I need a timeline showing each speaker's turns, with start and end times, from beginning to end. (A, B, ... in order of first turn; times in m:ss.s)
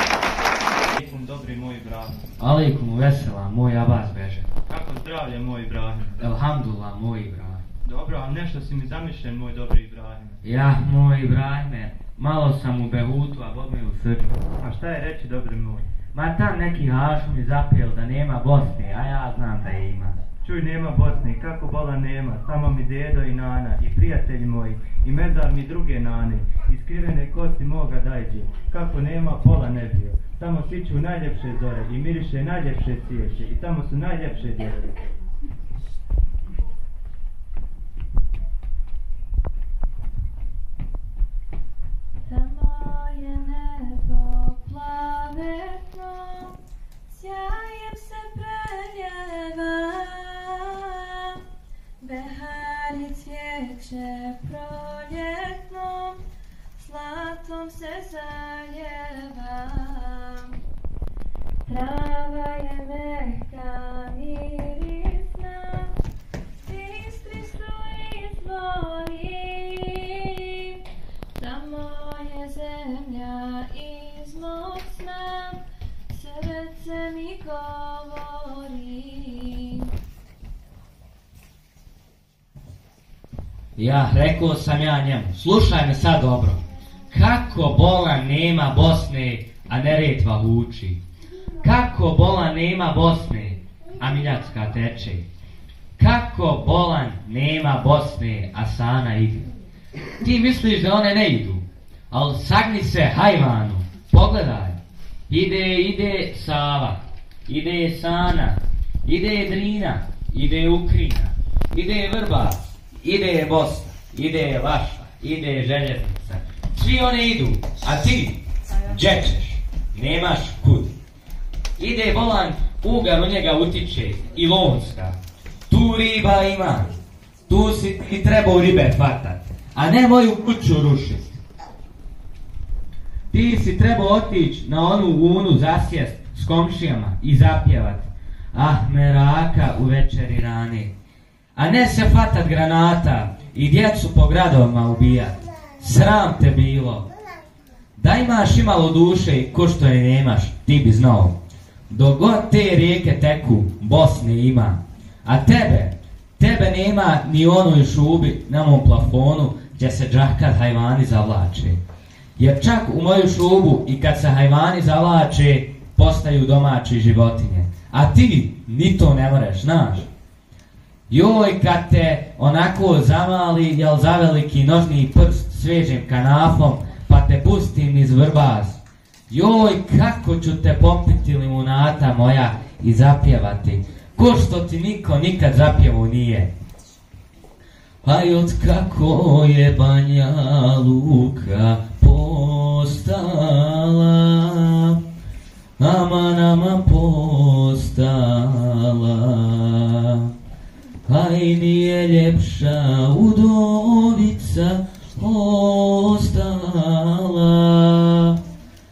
0:01.0-0:02.1 A
0:02.4-0:04.4 B
0:04.7-0:06.2 A
0:06.2-0:07.6 B
0:07.9-0:10.3 A
0:10.4-0:14.4 B
0:14.6-0:15.9 A
0:16.1-0:20.2 B
0:20.4-0:34.8 A
0:42.3-0:46.6 C
0:47.1-0:51.4 C
0:52.0-0:56.2 C
0:56.8-1:00.6 C
1:01.6-1:05.9 C
1:06.6-1:10.5 C
1:11.4-1:15.6 C
1:16.1-1:19.9 C
1:23.8-1:31.0 B
1:31.6-1:35.2 B
1:36.0-1:39.5 B
1:40.2-1:44.8 B
1:45.3-2:00.9 B
2:01.8-2:05.2 B
2:05.7-2:06.9 B
2:07.5-2:11.4 B
2:13.3-2:20.9 B
2:21.6-2:27.0 B
2:28.0-2:31.3 B
2:31.9-2:41.8 B
2:42.4-2:50.1 B
2:51.1-3:06.5 B
3:08.0-3:15.0 B
3:15.8-3:20.3 B
3:21.1-3:28.4 B